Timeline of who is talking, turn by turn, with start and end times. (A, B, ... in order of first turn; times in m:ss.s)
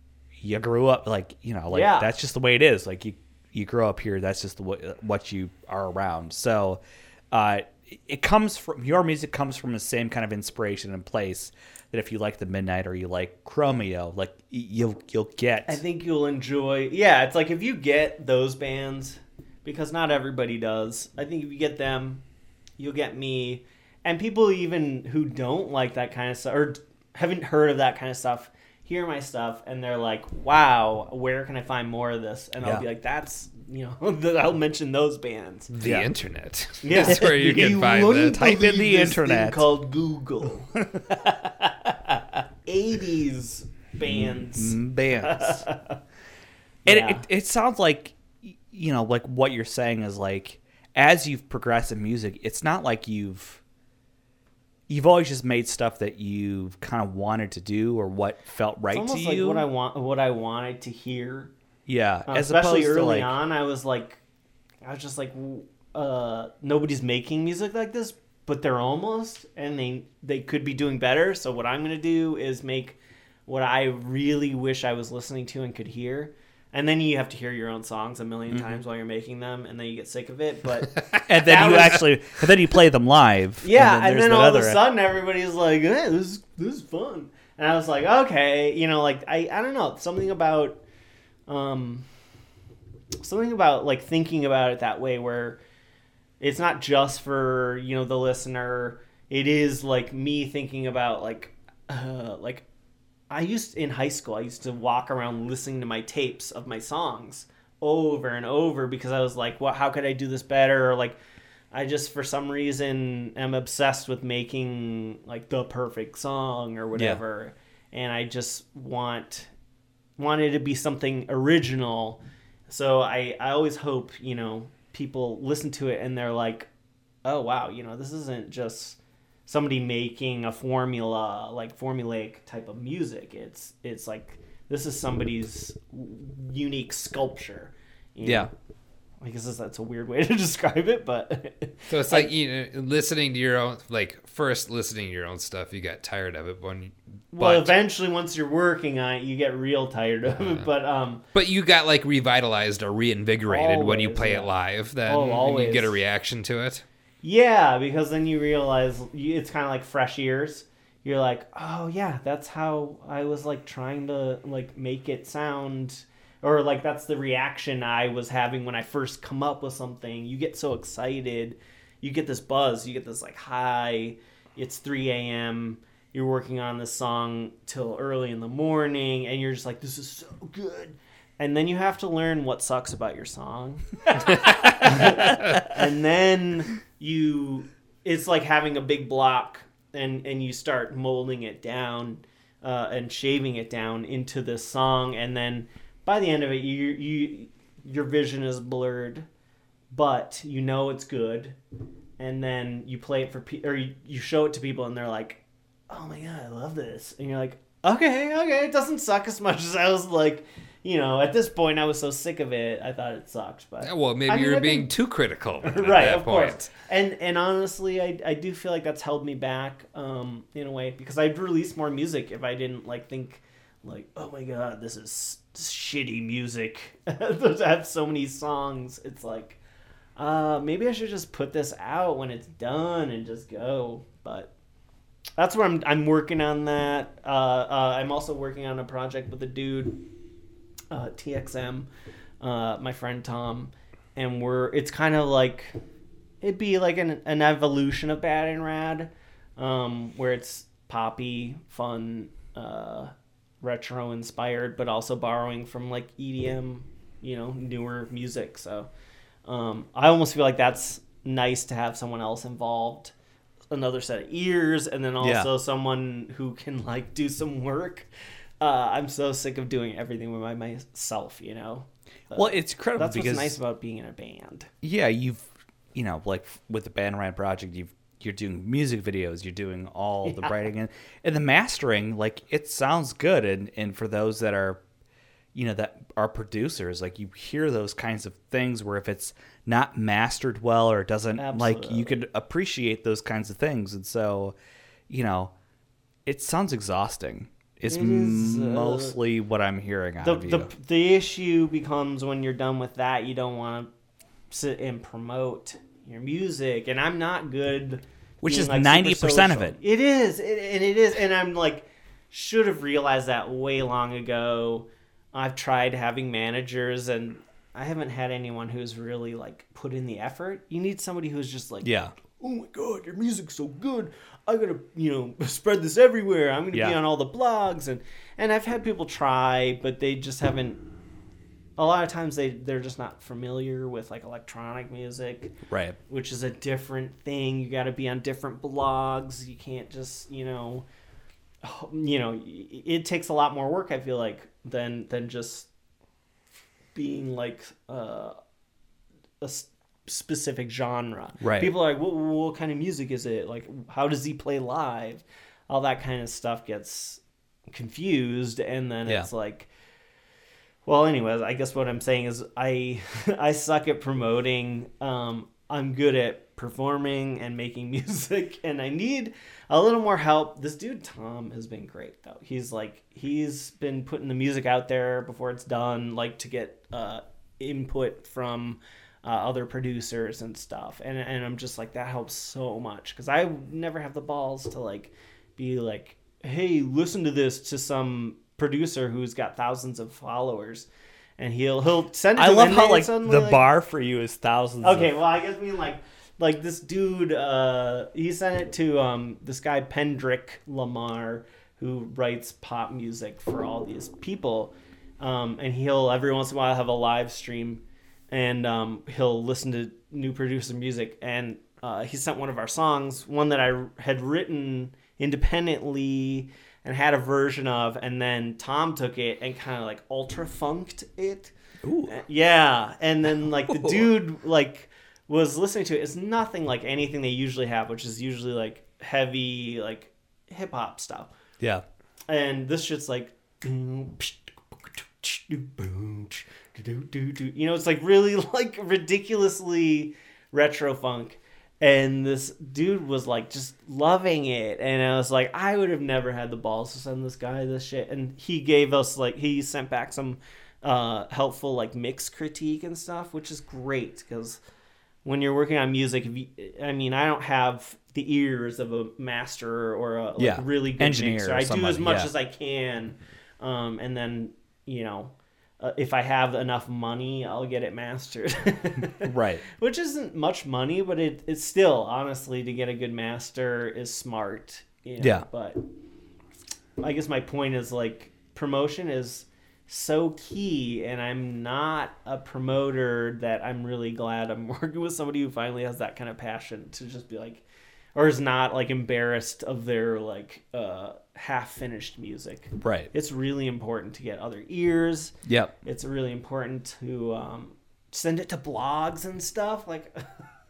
0:00.4-0:15.8 A
0:01.7-0:02.1 B
0:15.7-0:22.2 B
0:22.8-0:35.7 B
0:35.7-0:38.4 C
0:35.8-0:36.1 A
0:36.8-0:40.7 B
0:37.0-0:39.7 A
0:40.8-0:42.2 A
0:42.7-0:46.0 B
0:44.0-0:45.6 A
0:46.8-0:47.2 B
0:46.8-0:53.6 A
0:54.9-0:59.6 A
0:58.9-1:01.5 B
1:01.9-1:03.4 A
1:02.3-1:04.2 B
1:04.8-1:22.1 B
1:18.5-1:18.8 A
1:21.3-1:24.8 A
1:23.6-1:30.8 B
1:31.5-1:32.1 B
1:33.2-1:35.6 B
1:36.4-1:42.7 B
1:43.3-1:51.2 B
1:51.7-1:59.5 B
1:57.0-1:57.2 A
2:00.2-2:06.7 B
2:07.2-2:18.5 B
2:18.2-2:18.5 A
2:19.2-2:22.3 B
2:21.9-2:27.7 C
2:27.3-2:31.2 B
2:31.3-2:36.8 C
2:33.5-2:34.5 B
2:35.0-2:36.0 B
2:37.2-3:19.3 B
3:19.9-3:21.6 B
3:22.2-3:34.9 B
3:33.8-3:36.7 C
3:35.6-3:49.6 B
3:50.2-3:54.5 B
3:55.4-4:00.0 B
4:00.9-4:01.9 B
4:02.4-4:05.8 B
4:06.4-4:18.9 B
4:19.5-4:23.1 B
4:23.7-4:28.1 B
4:25.2-4:25.5 A
4:28.6-4:34.7 B
4:32.3-4:33.6 A
4:34.8-4:44.8 A
4:40.2-4:40.7 B
4:45.5-4:54.6 A
4:51.4-4:52.3 B
4:55.1-4:55.5 A
4:56.3-5:00.7 A
4:57.9-4:59.2 B
5:00.2-5:03.9 B
5:04.5-5:30.8 B
5:08.4-5:09.8 A
5:21.8-5:22.1 A
5:26.7-5:27.0 A
5:31.8-5:35.6 B
5:35.7-5:36.0 A
5:36.1-5:40.8 B
5:41.6-5:45.7 B
5:46.9-5:48.4 B
5:49.4-5:59.7 B
5:51.4-5:51.7 A
6:00.8-6:30.9 B
6:31.4-6:33.6 B
6:32.4-6:35.2 A
6:34.8-7:01.5 B
7:01.8-7:02.1 A
7:02.1-7:11.3 B
7:03.7-7:04.1 A
7:12.3-7:34.6 B
7:35.2-7:55.8 B
7:40.4-7:42.3 A
7:49.2-7:49.6 A
7:55.2-7:55.5 A
7:57.0-8:07.6 B
8:08.2-8:20.4 B
8:12.8-8:13.1 A
8:15.5-8:15.8 A